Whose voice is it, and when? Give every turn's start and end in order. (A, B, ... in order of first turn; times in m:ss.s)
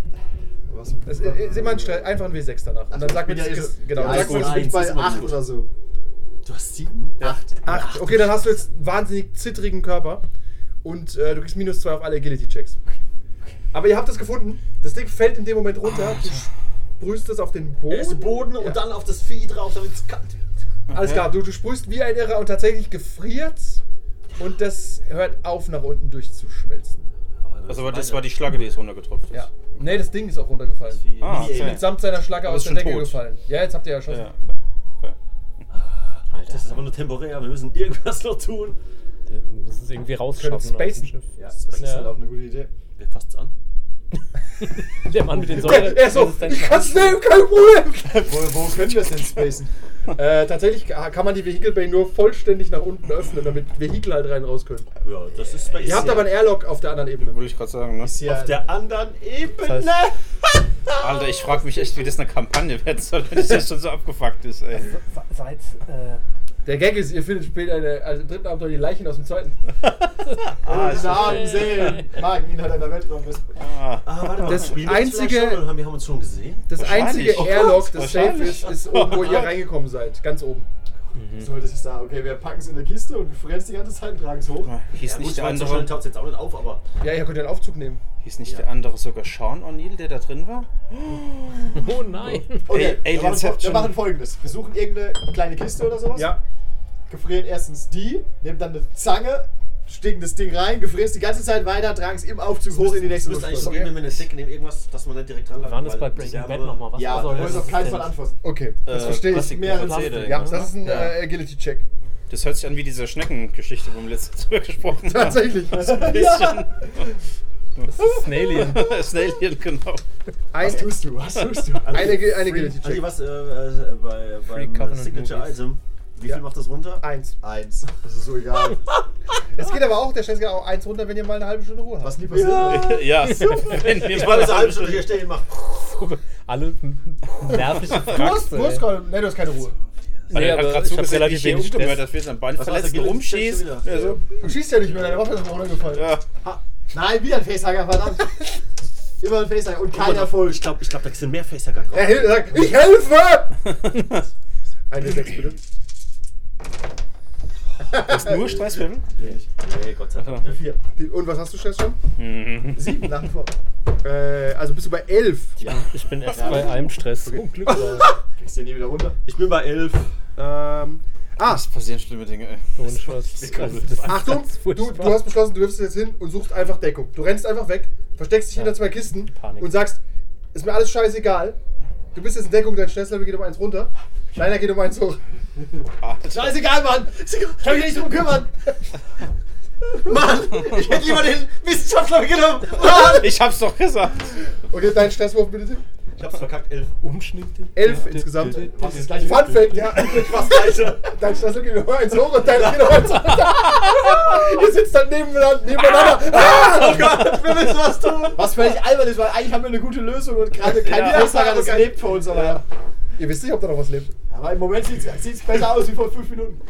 0:00.7-0:02.2 A
0:01.1-0:04.8 B
0:02.9-0:05.7 A
0:03.9-0:05.5 C
0:04.1-0:04.7 D
0:06.4-0:08.3 C
0:07.2-0:07.9 A
0:07.6-0:10.2 B
0:10.8-0:12.8 B
0:13.7-0:18.8 B
0:17.9-0:20.4 C
0:20.9-0:21.3 D
0:20.9-0:23.8 B
0:24.4-0:27.1 B
0:27.4-0:28.4 C
0:27.7-0:29.6 D
0:29.3-0:34.3 B
0:30.9-0:31.9 C
0:31.2-0:33.2 D
0:34.1-0:35.2 D
0:35.7-0:38.8 C
0:36.3-0:36.7 E
0:39.3-0:41.2 E
0:40.4-0:41.2 B
0:41.4-0:42.7 A
0:41.4-0:42.1 C
0:41.8-0:42.1 E
0:43.0-0:43.5 C
0:44.8-0:47.3 E
0:45.3-0:48.3 B
0:48.1-0:49.7 A
0:50.2-0:54.9 B
0:55.0-0:56.5 C
0:55.8-0:57.4 B
0:57.2-0:58.2 D
0:58.0-0:58.7 A
0:58.3-1:00.2 C
0:59.6-1:00.0 E
1:01.0-1:04.9 D
1:04.7-1:06.2 E
1:06.6-1:09.7 B
1:09.8-1:11.9 D
1:10.6-1:13.6 A
1:11.1-1:12.1 E
1:13.6-1:14.7 D
1:14.0-1:17.6 C
1:14.5-1:15.7 B
1:16.7-1:20.7 B
1:16.7-1:19.6 D
1:21.2-1:21.6 E
1:21.4-1:24.7 A
1:24.6-1:26.0 D
1:25.0-1:26.8 C
1:27.0-1:28.0 B
1:28.2-1:31.9 D
1:31.7-1:32.7 E
1:32.7-1:34.0 D
1:32.7-1:36.4 A
1:36.1-1:36.4 B
1:37.1-1:43.9 A
1:42.7-1:47.9 C
1:43.4-1:44.3 D
1:45.6-1:48.2 E
1:47.0-1:48.4 A
1:48.4-1:51.9 B
1:48.9-1:51.4 D
1:49.0-1:50.3 A
1:49.0-1:51.0 E
1:52.3-1:57.0 D
1:55.0-1:56.2 B
1:55.7-1:56.8 A
1:57.8-2:00.0 D
1:57.9-1:58.9 E
2:00.5-2:00.9 B
2:00.6-2:02.3 A
2:01.8-2:07.0 C
2:01.9-2:03.1 B
2:04.5-2:05.6 E
2:07.0-2:07.4 B
2:07.4-2:08.8 A
2:09.6-2:12.4 B
2:12.0-2:13.0 A
2:12.3-2:15.5 C
2:12.6-2:14.9 D
2:13.2-2:18.9 E
2:17.6-2:19.8 B
2:17.9-2:18.5 D
2:20.3-2:24.3 D
2:20.3-2:22.1 E
2:22.6-2:24.3 C
2:24.3-2:26.1 B
2:24.8-2:26.0 C
2:25.9-2:26.3 D
2:26.4-2:28.4 A
2:29.2-2:30.7 A
2:29.9-2:32.7 C
2:31.9-2:34.0 B
2:33.9-2:34.2 D
2:34.9-2:35.6 B
2:37.9-2:39.1 D
2:38.0-2:38.6 B
2:39.1-2:39.5 A
2:39.2-2:40.8 C
2:40.4-2:40.8 A
2:41.0-2:42.0 B
2:42.2-2:43.1 D
2:42.7-2:43.5 A
2:44.0-2:45.6 B
2:45.7-2:48.1 E
2:46.2-2:46.9 A
2:47.8-2:48.2 C
2:48.4-2:49.2 A
2:49.2-2:50.1 C
2:50.4-2:51.7 B
2:51.4-2:53.1 D
2:52.8-2:55.3 E
2:53.3-2:54.4 C
2:54.0-3:00.0 B
2:58.5-2:59.8 E
3:00.5-3:01.6 B
3:02.1-3:05.2 B
3:06.0-3:06.9 D
3:06.4-3:08.5 A
3:06.9-3:07.6 C
3:09.9-3:13.3 C
3:12.8-3:14.4 D
3:14.7-3:15.8 B
3:16.2-3:17.0 C
3:17.0-3:19.2 E
3:17.8-3:27.4 B
3:18.3-3:19.9 A
3:19.2-3:21.2 C
3:22.4-3:23.4 C
3:25.7-3:28.7 C
3:28.3-3:32.7 A
3:30.6-3:32.6 B
3:33.2-3:34.2 B
3:34.3-3:36.6 A